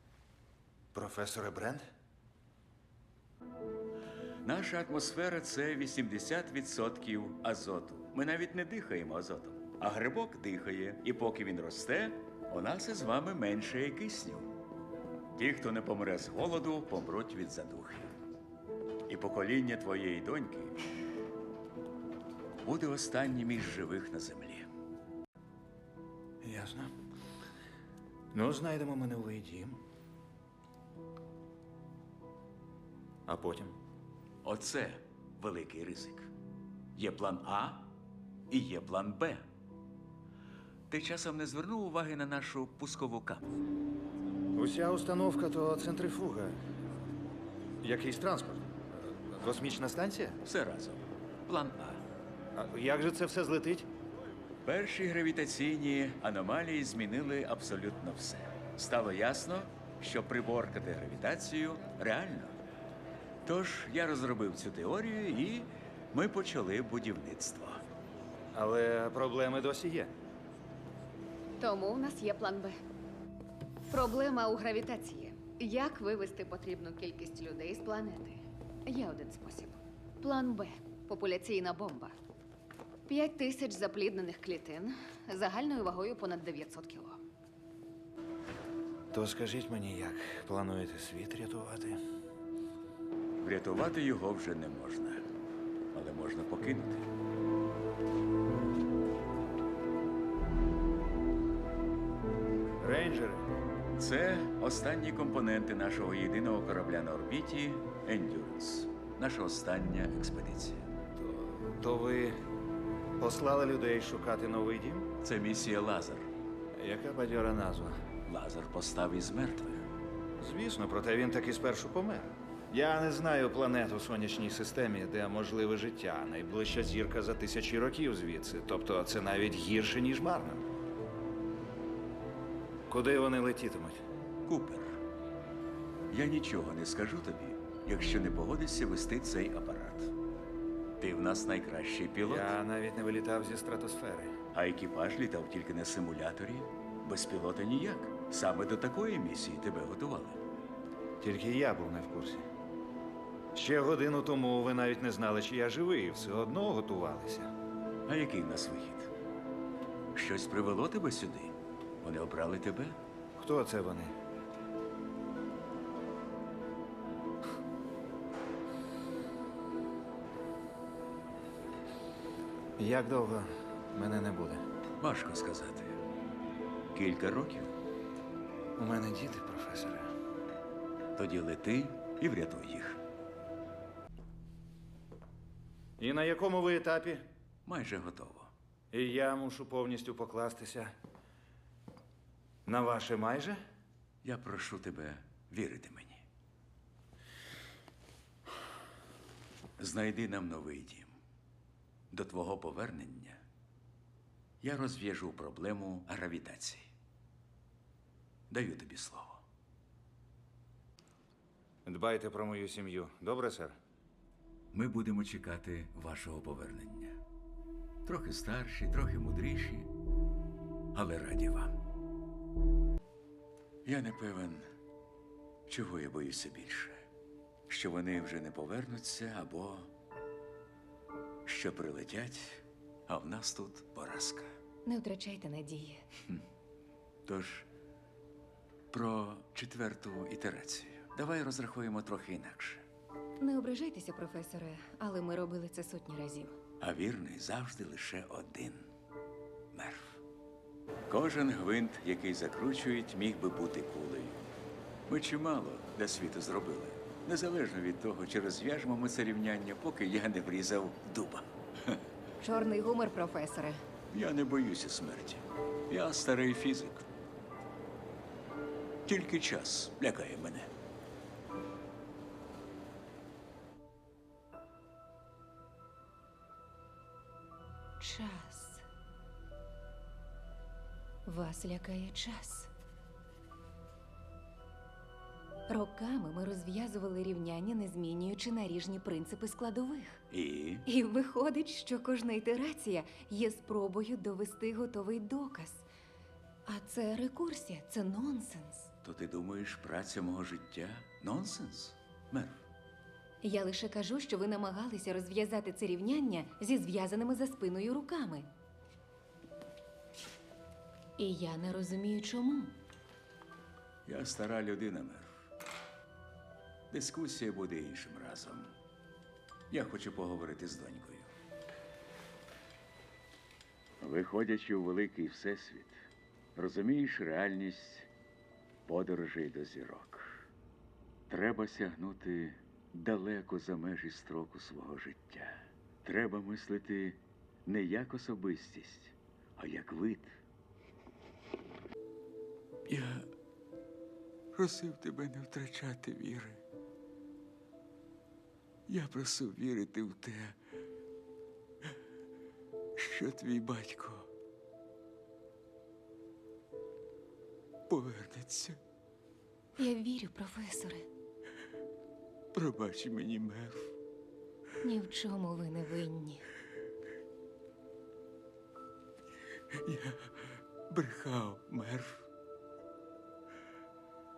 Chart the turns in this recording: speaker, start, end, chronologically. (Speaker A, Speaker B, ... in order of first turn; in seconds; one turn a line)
Speaker A: 0.9-1.8
Speaker B: 4.4-14.5
Speaker B: 15.3-18.1
Speaker B: 19.1-20.8
Speaker B: 22.6-24.7
Speaker A: 26.4-26.9
Speaker A: 28.3-29.8
Speaker A: 33.3-33.7
Speaker B: 34.4-36.3
Speaker B: 37.0-37.9
Speaker B: 38.5-39.5
Speaker B: 40.9-43.5
Speaker A: 44.5-46.5
Speaker A: 47.8-48.6
Speaker A: 49.4-50.4
Speaker B: 50.4-52.0
Speaker A: 52.5-53.9
Speaker B: 54.6-62.5
Speaker B: 63.5-67.8
Speaker A: 68.5-70.1
Speaker C: 71.6-72.8
Speaker C: 73.9-82.2
Speaker C: 83.1-87.2
Speaker A: 89.1-92.0
Speaker B: 93.4-95.3
Speaker B: 95.9-97.1
Speaker A: 102.8-103.5
Speaker B: 104.0-110.9
Speaker A: 111.2-112.3
Speaker A: 113.2-115.1
Speaker B: 115.2-116.3
Speaker A: 116.7-118.0
Speaker B: 118.2-119.9
Speaker A: 120.4-130.6
Speaker A: 132.9-134.0
Speaker B: 134.4-135.0
Speaker B: 136.1-140.1
Speaker B: 141.0-142.6
Speaker A: 142.2-144.3
Speaker B: 144.5-150.4
Speaker A: 151.2-152.4
Speaker A: 153.5-157.5
Speaker B: 158.1-159.1
Speaker B: 160.1-163.0
Speaker A: 163.4-164.1
Speaker A: 172.8-174.6
Speaker B: 175.0-176.0
Speaker B: 176.9-177.8
Speaker A: 178.8-180.1
Speaker B: 181.2-183.0
Speaker A: 186.0-187.2
Speaker B: 187.6-188.5
Speaker A: 188.9-190.9
Speaker A: 192.7-193.6
Speaker B: 194.2-196.2
Speaker B: 199.8-201.1
Speaker B: 202.1-203.4
Speaker B: 204.6-206.8
Speaker B: 208.5-209.4
Speaker A: 211.8-213.8
Speaker B: 214.7-217.2
Speaker B: 218.0-219.9
Speaker B: 220.9-221.8
Speaker B: 223.8-224.7
Speaker B: 225.7-227.0
Speaker B: 227.7-229.9
Speaker B: 231.4-234.5
Speaker C: 234.8-236.0
Speaker B: 237.2-237.7
Speaker B: 238.9-242.8
Speaker C: 243.4-246.6
Speaker B: 246.8-248.9
Speaker B: 249.7-250.2
Speaker B: 251.1-254.4
Speaker B: 255.1-262.0
Speaker C: 262.4-263.8
Speaker B: 264.1-267.1
Speaker B: 269.1-270.7
Speaker C: 278.0-278.8
Speaker C: 281.2-282.7
Speaker C: 285.7-290.2
Speaker B: 290.3-290.9
Speaker C: 290.9-295.9
Speaker C: 296.7-298.9
Speaker B: 299.0-302.6
Speaker C: 303.4-308.5
Speaker C: 311.2-312.8
Speaker B: 314.1-315.4
Speaker B: 316.9-318.7
Speaker B: 319.7-321.3
Speaker B: 324.0-326.0
Speaker B: 326.6-328.1
Speaker B: 328.9-330.4
Speaker B: 331.3-340.3
Speaker B: 342.9-343.3
Speaker B: 344.5-346.6
Speaker B: 348.9-350.6
Speaker B: 353.0-354.3
Speaker B: 357.9-358.8
Speaker C: 359.8-361.1
Speaker B: 362.5-363.9
Speaker C: 364.8-366.5
Speaker B: 369.8-372.3